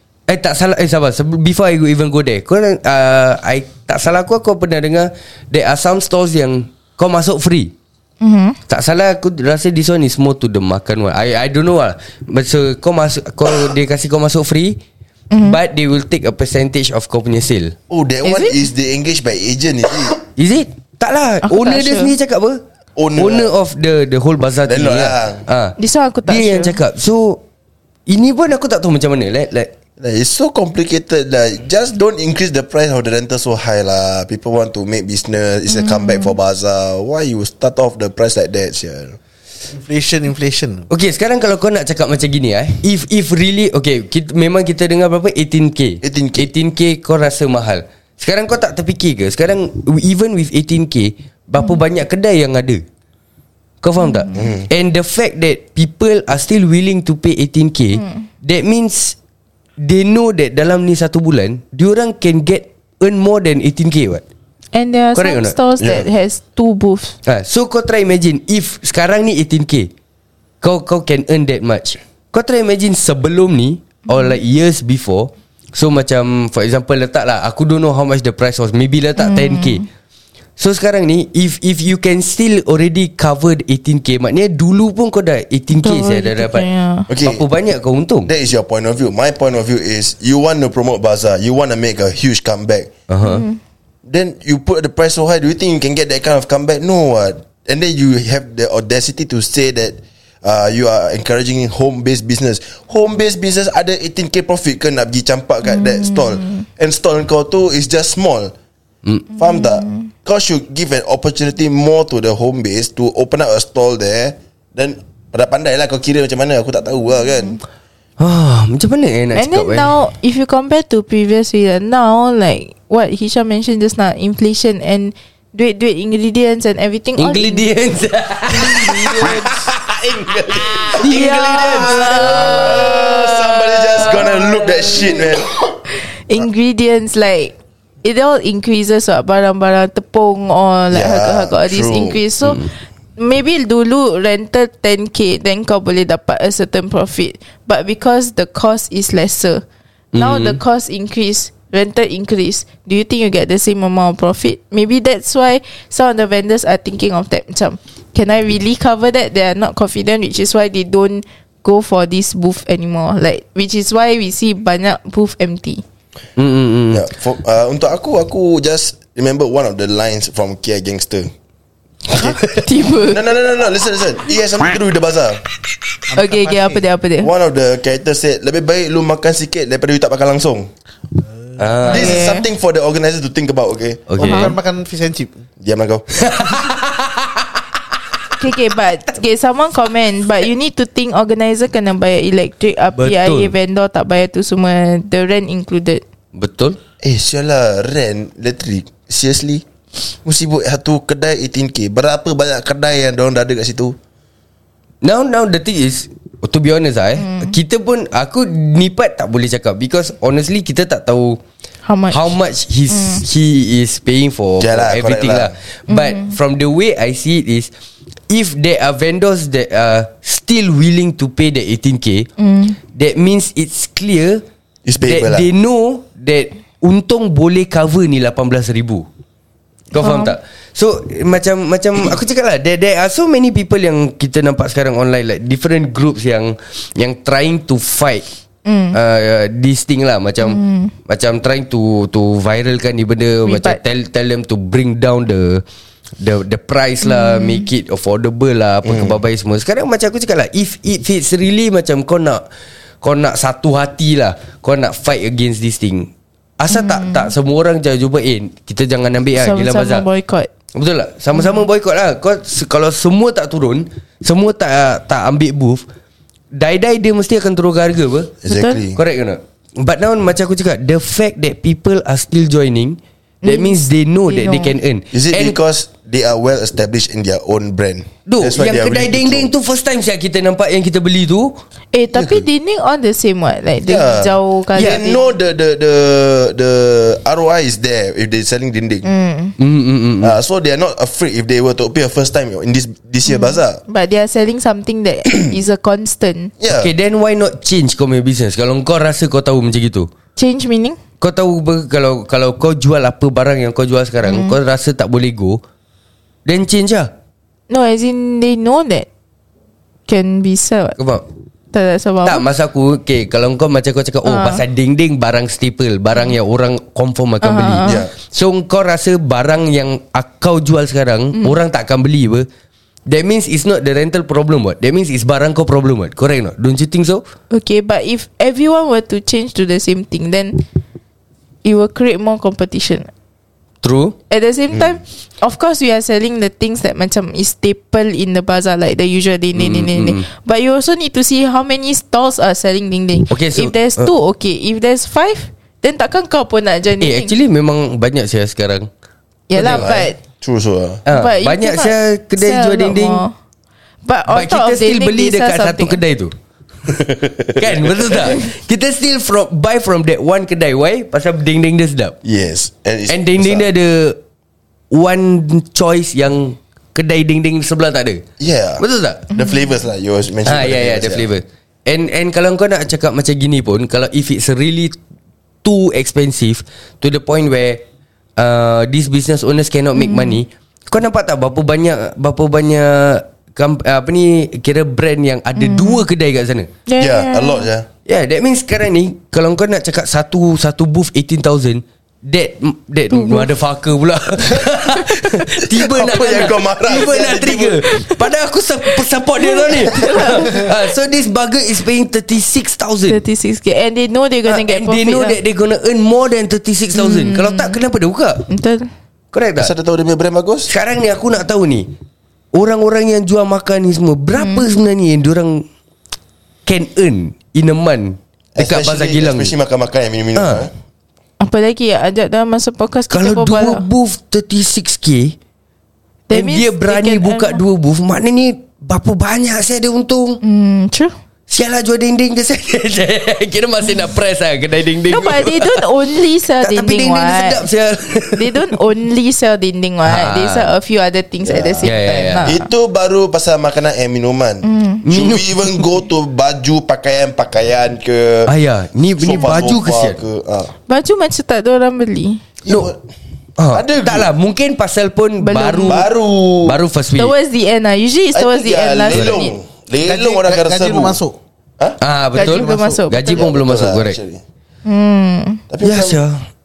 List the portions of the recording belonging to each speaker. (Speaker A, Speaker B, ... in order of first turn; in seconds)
Speaker A: 0.3-7.7, 8.7-14.8, 15.4-17.7, 20.4-22.6, 23.1-27.4, 28.1-29.7, 40.9-52.8, 53.8-59.1, 59.8-64.2, 65.1-65.5, 67.2-69.9, 70.6-79.8, 80.6-86.7, 87.2-88.3, 93.1-93.4, 118.2-119.9, 127.2-129.7, 130.6-135.2, 150.1-150.6, 166.4-167.1, 181.6-182.3, 184.1-184.6, 186.2-187.4, 193.0-193.5, 196.3-196.8, 205.0-211.4, 212.1-217.7, 218.3-222.3, 222.9-224.4, 225.0-229.1, 229.9-238.2, 238.9-245.6, 246.2-252.4, 253.0-260.0, 260.7-265.8, 266.5-268.4, 268.9-275.6, 278.2-281.6, 284.7-285.0, 289.6-290.4, 296.7-300.1, 301.2-305.6, 306.4-307.1, 311.0-311.2, 312.2-322.4, 323.1-327.2, 333.8-334.1, 339.5-340.3, 343.3-344.1, 347.0-348.9, 349.6-349.9, 351.1-353.2, 354.3-356.3, 357.6-362.2, 363.1-364.2, 364.9-368.2, 368.8-369.2, 370.4-374.9, 375.6-377.8, 378.4-386.7, 388.1-403.2, 404.5-408.4, 409.3-409.7, 410.7-411.9, 412.5-415.6, 416.6-419.5, 420.3-420.7, 423.1-425.4, 426.3-430.4, 431.5-435.8, 436.6-438.8, 440.1-440.7, 441.8-442.5, 445.0-445.9, 448.5-450.2, 453.6-456.1, 456.6-457.3, 462.0-464.2, 465.8-466.4
Speaker B: 8.2-8.6, 15.3-15.6, 18.2-18.6, 21.4-22.1, 25.8-26.8, 35.7-36.3, 54.0-54.4, 64.7-67.2, 74.1-74.4, 79.2-79.8, 85.8-87.1, 93.2-93.6, 105.7-106.6, 109.4-110.1, 119.3-127.7, 131.0-133.3, 136.3-149.6, 150.2-165.8, 172.1-173.3, 176.1-177.3, 181.8-182.4, 184.2-184.5, 188.3-196.0, 207.2-207.5, 211.8-212.3, 212.9-213.2, 215.9-216.3, 222.4-222.8, 230.0-230.3, 238.6-239.0, 240.4-240.9, 243.4-243.8, 247.0-247.7, 256.7-257.3, 259.3-260.5, 261.3-261.6, 268.4-268.8, 273.4-274.7, 281.9-285.3, 289.0-289.5, 293.2-296.5, 300.4-301.0, 304.2-304.6, 307.7-309.1, 310.1-311.0, 311.7-312.4, 314.2-314.6, 317.4-318.0, 327.5-330.6, 331.6-333.1, 334.3-347.3, 349.5-350.2, 351.1-353.3, 354.0-356.0, 369.3-369.6, 379.9-380.4, 385.6-386.0, 386.9-387.7, 393.1-393.5, 397.9-398.2, 399.4-400.9, 403.1-405.4, 406.9-407.8, 408.5-408.9, 414.4-414.6, 421.4-423.8, 426.3-427.6, 430.4-431.1, 435.1-437.6, 438.3-442.7, 444.6-445.0, 450.9-452.4, 455.4-456.1, 457.1-459.6, 462.3-463.4, 464.9-465.6
Speaker C: 17.9-20.2, 23.0-23.5, 24.7-25.4, 30.0-39.2, 46.0-46.5, 54.4-54.6, 65.8-66.0, 87.1-87.4, 88.2-92.9, 94.1-108.5, 109.3-117.6, 128.5-135.7, 140.9-142.2, 166.9-171.3, 173.0-175.4, 177.2-180.7, 181.8-184.1, 185.6-186.6, 197.0-199.6, 200.2-203.9, 214.6-215.5, 224.8-225.5, 248.8-249.2, 268.4-269.0, 275.1-279.5, 282.1-282.4, 283.9-289.1, 290.2-293.8, 296.6-296.9, 317.8-318.1, 349.6-351.0, 356.9-358.4, 362.2-363.6, 368.4-371.3, 387.0-387.9, 395.8-397.8, 409.6-410.7, 418.6-420.7, 441.4-441.9, 442.4-448.5, 449.2-450.7, 452.6-453.0, 453.7-454.3, 455.9-456.8, 458.3-461.2, 463.3-464.4, 465.7-466.2
Speaker D: 39.7-40.9, 176.1-176.8, 181.3-181.6, 184.2-185.4, 460.0-461.4, 462.4-463.0